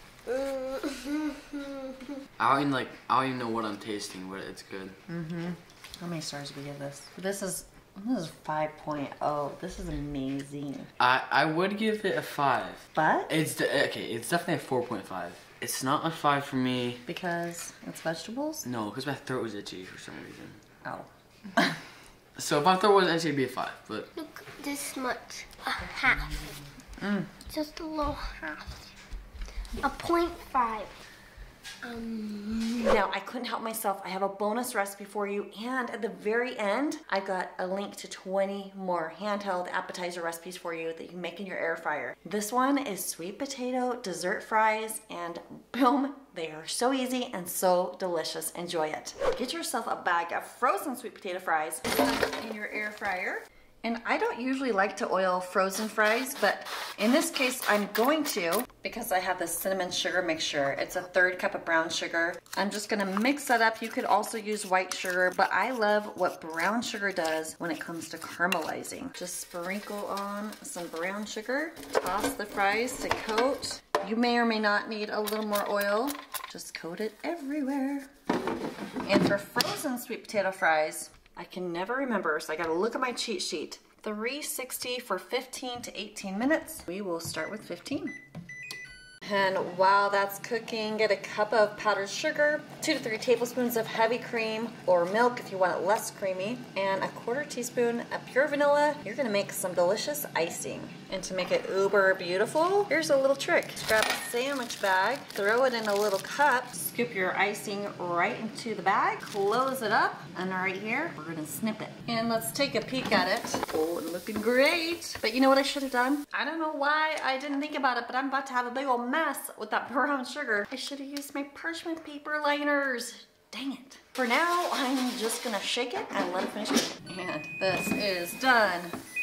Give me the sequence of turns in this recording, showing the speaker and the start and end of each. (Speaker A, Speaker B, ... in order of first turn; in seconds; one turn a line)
Speaker A: 0.2-1.9
Speaker B: 2.4-5.0
Speaker C: 5.1-10.9
Speaker B: 11.0-17.0
Speaker C: 12.9-13.3
Speaker C: 17.1-18.6
Speaker B: 18.6-20.6
Speaker C: 20.8-21.8
Speaker B: 22.4-24.1
Speaker A: 24.1-26.5
Speaker C: 27.0-27.3
Speaker A: 27.5-28.9
Speaker A: 29.8-30.9
Speaker A: 31.8-32.9
Speaker C: 32.8-78.1
Speaker C: 79.0-88.2
Speaker C: 89.2-129.0